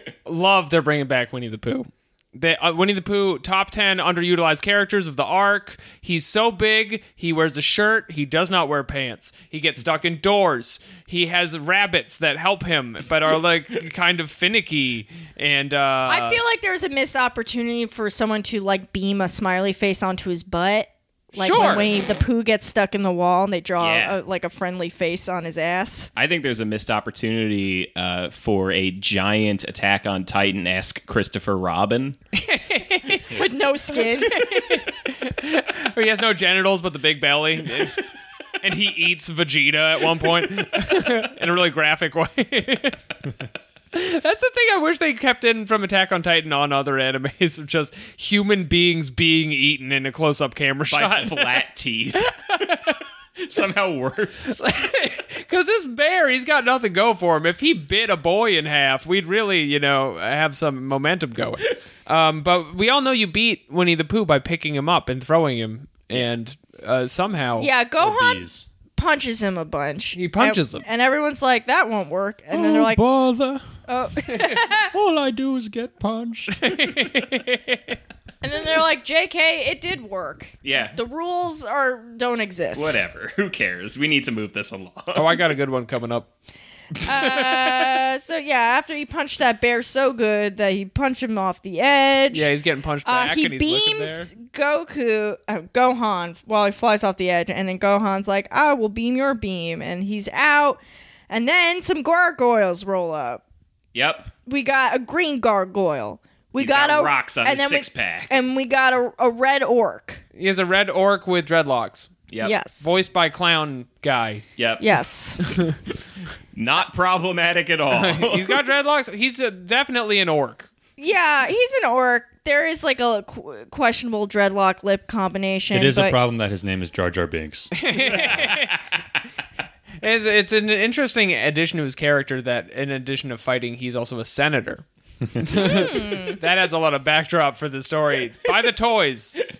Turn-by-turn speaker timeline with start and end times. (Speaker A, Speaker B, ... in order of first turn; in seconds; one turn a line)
Speaker A: 0.2-16.4
Speaker B: 16.1-26.1
Speaker A: 21.4-21.9
Speaker C: 23.8-24.2
Speaker C: 26.1-32.1
Speaker A: 32.3-33.4
Speaker B: 33.3-34.9
Speaker A: 34.2-38.1
Speaker A: 38.6-43.0
Speaker A: 43.9-51.6
Speaker C: 50.9-52.2
Speaker A: 52.2-53.0
Speaker C: 53.4-54.6
Speaker A: 54.5-67.7
Speaker B: 67.6-73.0
Speaker D: 68.0-68.7
Speaker A: 70.1-70.8
Speaker D: 72.5-73.7
Speaker B: 73.9-74.9
Speaker D: 74.9-76.9
Speaker A: 76.5-78.0
Speaker B: 78.4-83.0
Speaker C: 80.6-81.0
Speaker C: 82.7-85.4
Speaker A: 85.1-86.3
Speaker B: 87.0-92.5
Speaker A: 87.1-88.0
Speaker A: 92.3-94.3
Speaker B: 93.0-103.4
Speaker C: 103.9-104.3
Speaker B: 104.4-110.2
Speaker C: 106.6-108.4
Speaker A: 110.3-112.1
Speaker B: 112.4-113.0
Speaker A: 112.8-114.4
Speaker C: 114.6-114.8
Speaker B: 114.8-115.4
Speaker A: 115.5-115.8
Speaker C: 116.5-118.7
Speaker A: 117.9-120.7
Speaker B: 121.0-126.2
Speaker D: 125.7-127.7
Speaker A: 127.7-128.8
Speaker A: 130.0-134.8
Speaker A: 135.4-139.4
Speaker B: 135.5-136.4